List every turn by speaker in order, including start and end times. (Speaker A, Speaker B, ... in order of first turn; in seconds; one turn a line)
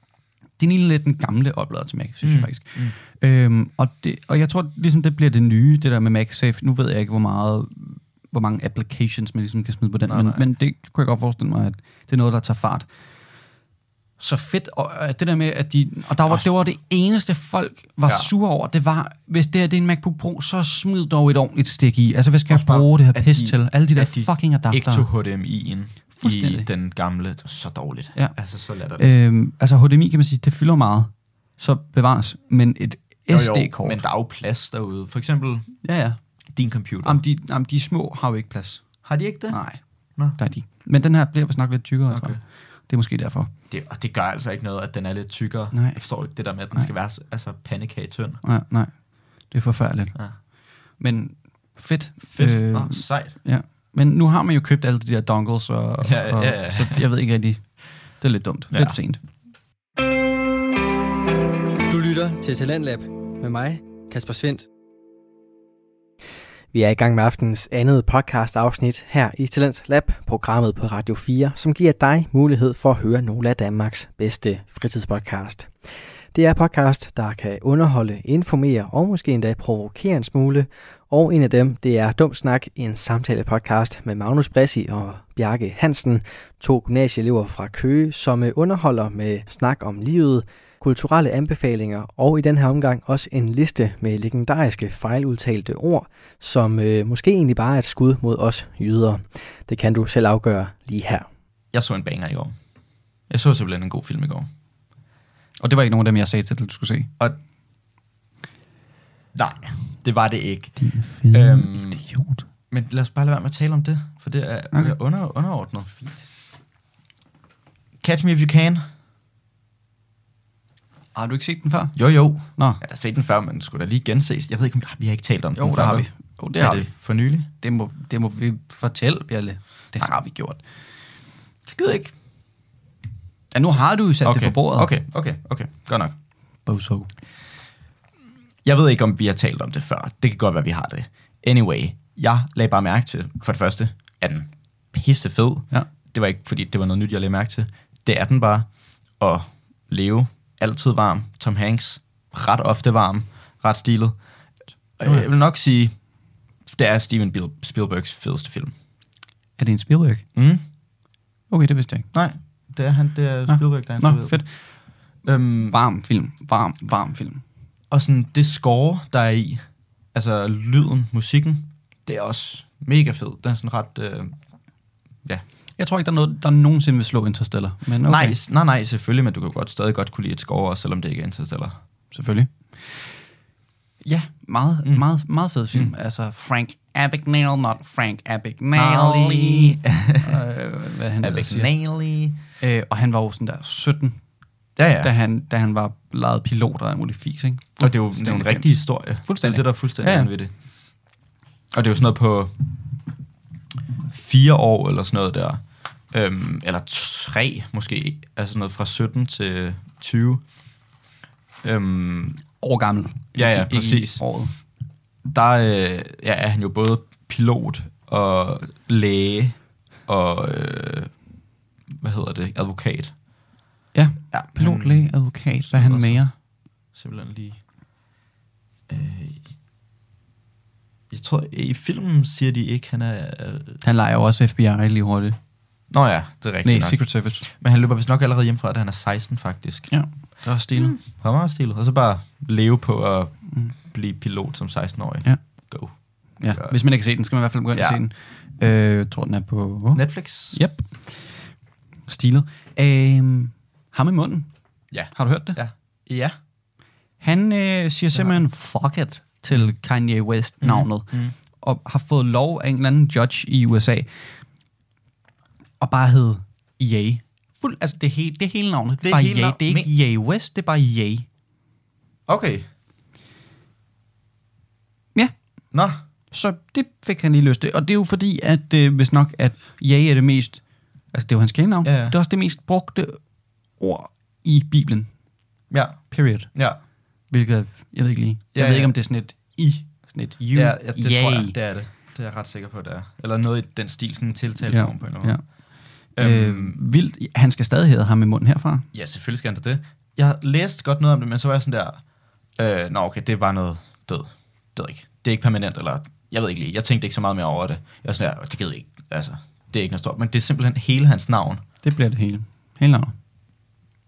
Speaker A: 0.6-12.9
Speaker B: 2.2-3.0
Speaker B: 10.1-10.4
Speaker A: 14.2-25.1
Speaker B: 22.5-29.0
Speaker A: 26.2-26.7
Speaker A: 29.0-34.0
Speaker B: 33.3-35.8
Speaker A: 35.8-36.2
Speaker B: 36.5-37.2
Speaker A: 37.0-38.9
Speaker B: 39.0-39.6
Speaker A: 39.5-39.8
Speaker A: 40.4-43.5
Speaker B: 42.1-42.4
Speaker B: 43.7-48.4
Speaker A: 45.7-46.0
Speaker A: 48.4-50.1
Speaker A: 51.0-59.2
Speaker B: 52.3-53.4
Speaker B: 56.0-57.1
Speaker B: 58.7-59.0
Speaker C: 61.9-64.7
Speaker D: 66.7-75.7
Speaker D: 76.3-101.3
Speaker B: 101.7-102.6
Speaker B: 103.3-104.5
Speaker A: 105.6-107.1
Speaker B: 109.3-110.8
Speaker A: 110.8-112.4
Speaker B: 111.3-112.0
Speaker B: 112.7-115.9
Speaker A: 115.9-116.2
Speaker B: 118.0-118.9
Speaker A: 121.2-122.0
Speaker B: 122.0-127.5
Speaker A: 122.5-122.8
Speaker A: 125.6-126.9
Speaker A: 127.6-130.6
Speaker B: 131.7-132.1
Speaker A: 133.5-134.9
Speaker B: 134.2-136.2
Speaker A: 136.7-137.1
Speaker B: 138.6-154.2
Speaker B: 155.0-155.9
Speaker B: 156.7-158.7
Speaker A: 159.6-160.2
Speaker B: 160.3-160.6
Speaker A: 161.5-162.1
Speaker B: 162.1-164.4
Speaker A: 163.5-164.5
Speaker B: 165.2-165.8
Speaker A: 165.7-167.4
Speaker B: 167.9-174.4
Speaker A: 175.8-178.4
Speaker B: 178.0-181.8
Speaker A: 182.1-183.1
Speaker A: 184.0-191.7
Speaker B: 188.8-190.4
Speaker B: 191.2-192.4
Speaker A: 192.6-194.2
Speaker B: 194.8-195.1
Speaker A: 195.0-200.3
Speaker B: 197.8-200.5
Speaker B: 201.7-202.7
Speaker B: 204.1-210.4
Speaker B: 211.6-212.4
Speaker A: 212.6-214.5
Speaker B: 213.3-214.2
Speaker B: 215.3-221.1
Speaker B: 221.9-223.2
Speaker A: 223.9-226.3
Speaker B: 224.3-226.2
Speaker B: 226.9-227.6
Speaker B: 228.9-229.4
Speaker B: 231.1-233.8
Speaker A: 233.8-235.4
Speaker B: 235.9-239.9
Speaker A: 236.6-237.4
Speaker A: 239.9-241.0
Speaker B: 240.7-245.9
Speaker A: 246.4-251.5
Speaker B: 246.5-246.8
Speaker B: 247.7-248.0
Speaker B: 249.9-250.6
Speaker A: 252.1-254.5
Speaker B: 254.9-256.4
Speaker A: 255.1-255.6
Speaker A: 257.2-264.1
Speaker B: 258.1-258.4
Speaker B: 260.6-261.3
Speaker A: 265.8-271.3
Speaker B: 269.0-269.9
Speaker B: 272.3-272.7
Speaker B: 275.7-276.0
Speaker A: 276.3-283.2
Speaker B: 281.8-282.1
Speaker A: 283.8-285.1
Speaker B: 285.7-286.8
Speaker A: 286.1-286.5
Speaker A: 287.3-291.6
Speaker B: 288.5-288.9
Speaker B: 290.5-295.4
Speaker A: 294.7-295.4
Speaker B: 296.1-296.8
Speaker A: 296.2-298.9
Speaker B: 298.9-302.0
Speaker B: 302.6-311.6
Speaker A: 311.8-313.1